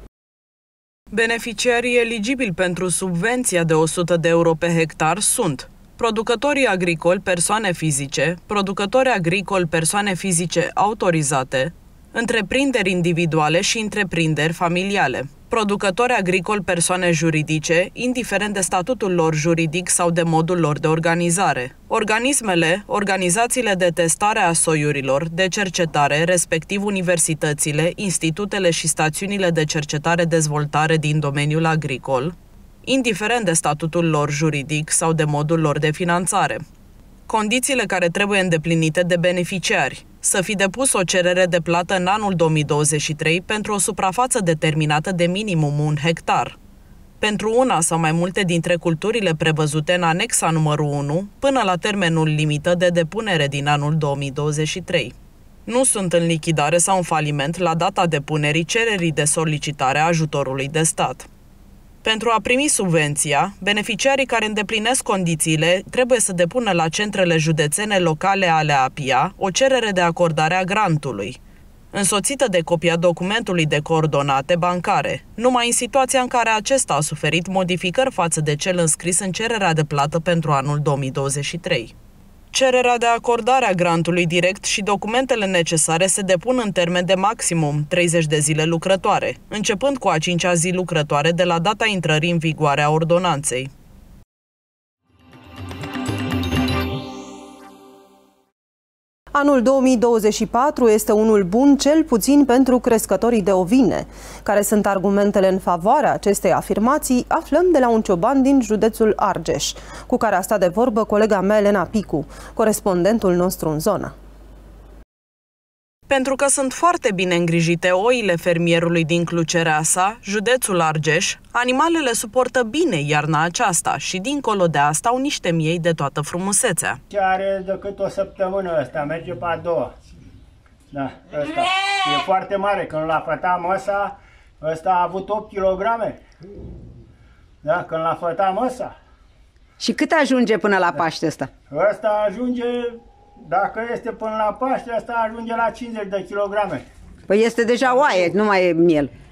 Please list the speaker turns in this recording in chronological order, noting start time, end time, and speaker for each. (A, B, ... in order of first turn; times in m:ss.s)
0:01.1-0:36.6 A
0:37.3-0:46.6 A
0:47.2-0:55.1 A
0:55.6-1:01.3 A
1:02.0-1:11.4 A
1:11.9-1:21.9 A
1:22.5-1:33.7 A
1:39.3-1:54.1 B
1:56.1-2:07.0 A
2:07.1-2:09.9 C
2:10.9-2:16.2 C
2:17.6-2:18.9 C
2:19.8-2:21.5 D
2:21.7-2:26.8 C
2:27.3-2:29.1 D